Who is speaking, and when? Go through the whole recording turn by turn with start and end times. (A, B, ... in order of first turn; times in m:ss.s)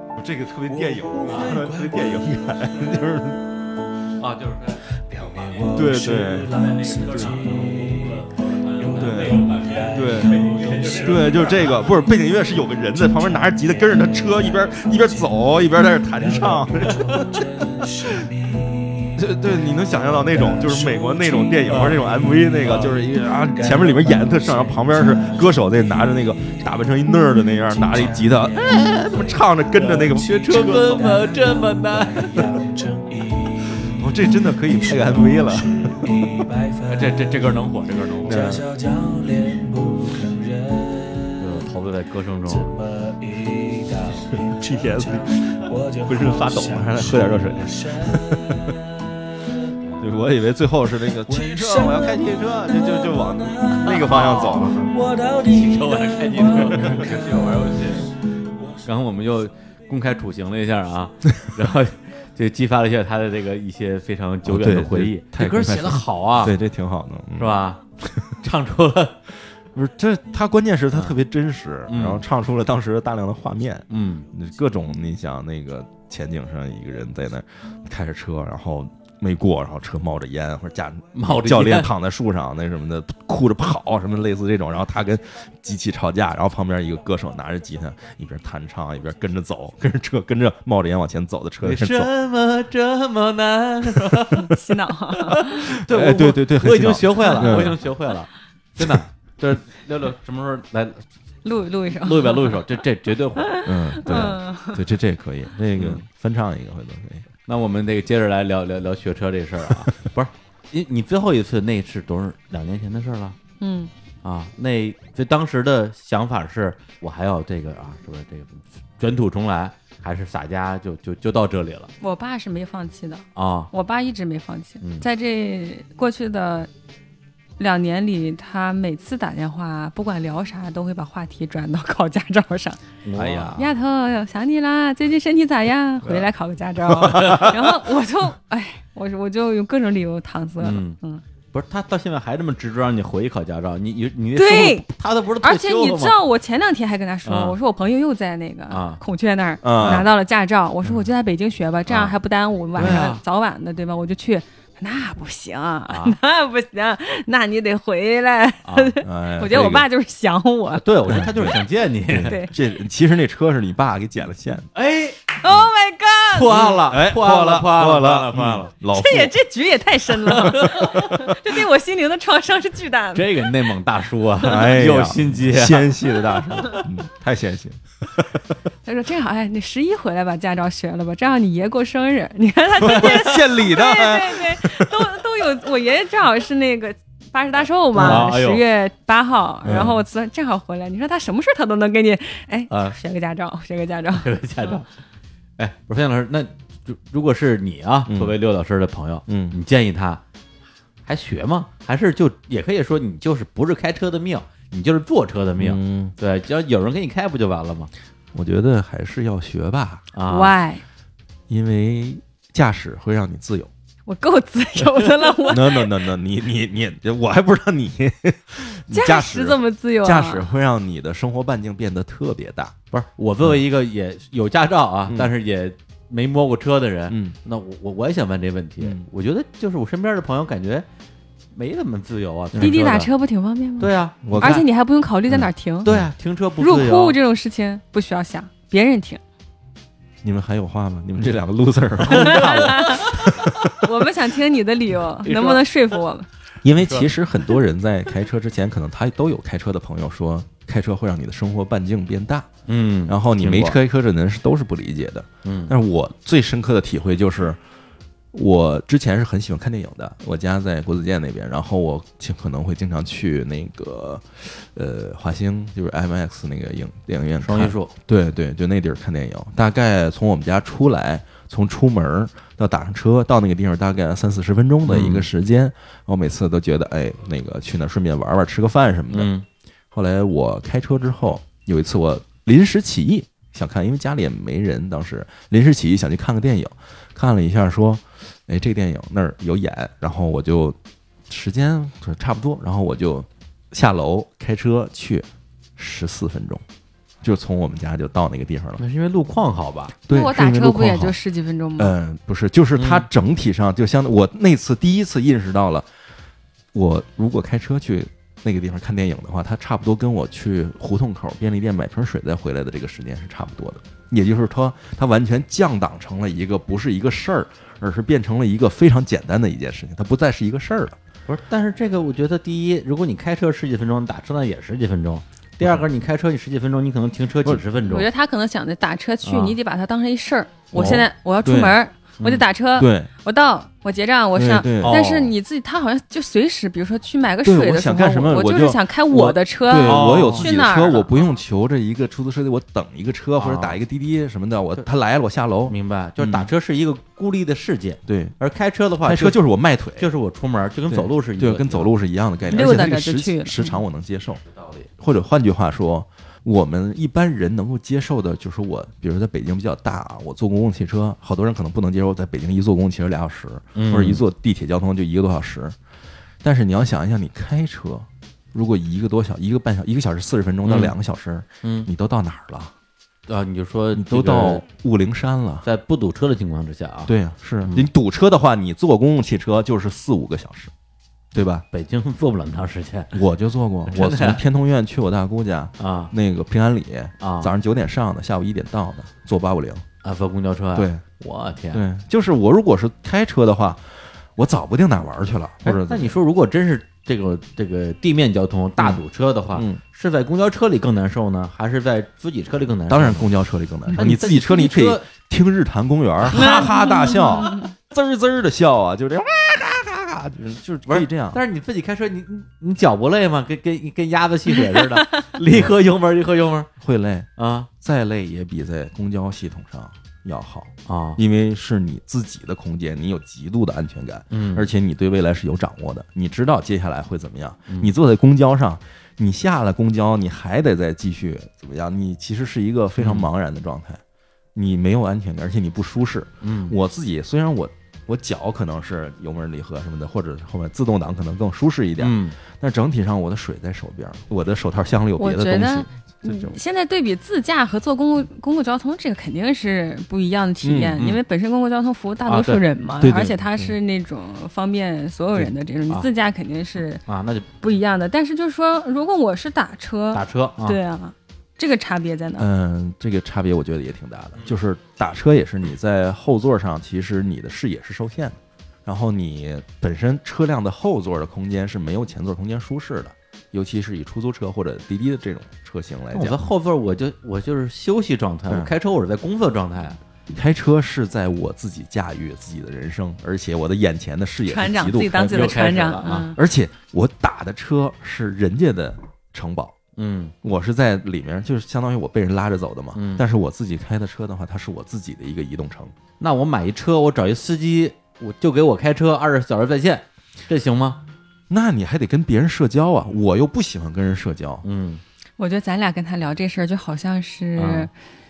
0:00.2-0:03.4 A
0:00.7-0:04.2 B
0:01.2-0:01.6 C
0:04.2-0:05.8 C
0:05.0-0:41.6 B
0:05.7-0:06.5 A
0:06.5-0:11.9 C
0:09.0-0:10.4 A
0:10.9-0:17.9 A
0:19.2-0:31.3 A
0:21.7-0:22.0 C
0:29.7-0:32.5 C
0:34.0-0:36.2 A
0:36.9-0:38.5 C
0:38.2-0:38.6 A
0:41.4-0:42.7 C
0:42.4-0:49.6 B
0:44.5-0:45.4 A
0:46.1-0:48.7 A
0:50.0-0:54.9 A
0:51.2-0:58.9 B
0:55.5-0:58.1 C
0:58.8-1:06.5 C
1:04.4-1:08.4 A
1:07.4-1:07.8 C
1:08.4-1:09.2 C
1:09.7-1:32.1 A
1:11.9-1:12.2 C
1:13.9-1:14.3 C
1:21.1-1:21.9 C
1:31.6-1:34.5 C
1:34.4-1:35.6 D
1:35.2-1:41.0 C
1:35.5-1:37.8 A
1:37.2-1:37.7 D
1:41.4-1:42.8 D
1:42.0-1:43.6 C
1:43.4-1:44.8 D
1:43.6-1:47.2 A
1:45.8-1:46.0 C
1:47.5-1:53.4 C
1:53.6-1:53.9 D
1:54.2-2:01.9 C
2:02.0-2:06.7 D
2:03.4-2:03.7 C
2:04.8-2:05.0 C
2:07.6-2:21.2 D
2:13.0-2:13.7 C
2:16.9-2:17.6 A
2:17.0-2:17.5 C
2:20.6-2:21.0 C
2:21.5-2:26.2 C
2:24.4-2:24.9 D
2:25.4-2:41.2 D
2:27.2-2:27.6 C
2:28.7-2:29.0 C
2:29.6-2:30.1 A
2:29.8-2:30.1 C
2:31.9-2:32.1 C
2:32.8-2:33.1 A
2:32.8-2:33.2 C
2:35.9-2:36.2 C
2:38.6-2:38.9 C
2:39.0-2:39.9 A
2:40.7-2:42.4 C
2:41.1-2:44.7 A
2:42.3-2:42.5 D
2:44.7-2:45.4 C
2:45.4-2:46.7 D
2:46.3-2:48.7 C
2:46.5-2:49.3 A
2:48.9-2:53.7 D
2:50.5-2:51.0 C
2:53.1-2:55.9 C
2:54.4-2:54.7 D
2:54.4-2:58.2 A
2:58.8-3:14.8 D
3:02.8-3:04.9 A
3:02.9-3:03.2 C
3:07.9-3:08.3 A
3:08.0-3:08.6 C
3:09.6-3:10.0 A
3:09.7-3:10.0 C
3:12.7-3:13.0 C
3:14.1-3:14.9 C
3:15.6-3:20.2 C
3:18.1-3:18.4 A
3:19.3-3:19.6 A
3:21.0-3:27.9 C
3:25.6-3:26.1 A
3:28.3-3:30.0 A
3:30.1-3:30.5 C
3:30.3-3:30.8 D
3:31.5-3:33.7 A
3:34.0-3:36.0 D
3:35.5-3:42.7 A
3:38.9-3:40.5 D
3:42.9-3:50.8 C
3:45.0-3:45.3 A
3:47.1-3:47.4 A
3:48.8-3:49.1 A
3:51.5-3:53.1 C
3:52.5-3:52.8 A
3:52.6-3:55.9 D
3:53.8-3:54.6 C
3:54.2-3:54.6 A
3:55.3-3:56.1 A
3:55.8-3:57.2 C
3:56.6-3:59.2 D
4:00.2-4:03.6 A
4:02.0-4:03.4 C
4:02.1-4:06.3 D
4:05.2-4:05.6 C
4:06.6-4:12.5 A
4:06.8-4:07.1 C
4:12.7-4:13.8 C
4:13.1-4:17.6 A
4:15.4-4:15.7 C
4:18.3-4:39.3 A
4:27.4-4:27.9 C
4:34.9-4:35.3 C
4:39.1-4:39.4 C
4:39.9-4:50.8 A
4:51.3-4:56.6 A
4:57.2-4:58.8 A
4:58.8-4:59.9 C
5:00.1-5:01.2 A
5:00.1-5:01.9 D
5:01.8-5:05.9 A
5:02.8-5:03.0 C
5:06.7-5:21.0 A
5:21.3-5:28.1 C
5:25.6-5:25.8 A
5:27.9-5:41.4 D
5:29.2-5:29.6 C
5:30.7-5:31.8 A
5:32.8-5:33.1 A
5:34.3-5:35.0 A
5:34.8-5:35.3 C
5:37.4-5:46.5 A
5:39.8-5:40.5 C
5:43.4-5:43.8 C
5:45.7-5:49.4 C
5:48.0-5:48.4 A
5:49.0-5:50.1 A
5:50.0-5:51.9 C
5:50.9-5:54.4 A
5:52.5-5:53.8 D
5:54.5-5:54.9 C
5:55.0-6:05.8 A
6:03.7-6:04.2 C
6:06.4-6:12.7 A
6:10.6-6:11.0 C
6:11.6-6:11.9 C
6:13.3-6:14.6 C
6:13.9-6:15.6 A
6:15.6-6:17.9 C
6:17.1-6:20.7 A
6:21.3-6:21.6 A
6:21.7-6:23.2 C
6:23.1-6:29.8 A
6:23.8-6:24.4 C
6:25.8-6:26.1 C
6:27.2-6:27.5 C
6:30.0-6:31.8 C
6:30.7-6:31.0 A
6:31.7-6:36.2 A
6:35.6-6:43.3 C
6:39.5-6:39.8 A
6:42.9-6:51.4 A
6:43.9-6:45.1 C
6:46.3-6:46.7 C
6:46.3-6:47.7 D
6:50.9-6:56.7 C
6:56.8-7:14.0 A
6:57.4-6:57.7 C
7:00.8-7:01.2 C
7:04.3-7:04.7 C
7:07.7-7:07.9 C
7:13.0-7:13.3 C
7:14.5-7:26.6 A
7:16.4-7:16.8 C
7:22.0-7:22.4 C
7:25.2-7:37.0 D
7:30.6-7:31.0 A
7:32.2-7:32.6 C
7:33.0-7:33.7 A
7:37.1-7:37.5 C
7:37.6-7:42.5 D
7:40.1-7:40.8 C
7:42.4-7:56.4 A
7:56.1-8:00.0 C
8:00.3-8:05.5 A
8:04.5-8:06.4 D
8:05.2-8:06.3 C
8:06.3-8:09.7 A
8:10.0-8:10.3 C
8:10.4-8:15.9 A
8:12.9-8:13.2 C
8:16.2-8:21.0 C
8:21.5-8:24.6 A
8:24.6-8:25.0 C
8:25.4-8:27.9 D
8:27.6-8:27.9 C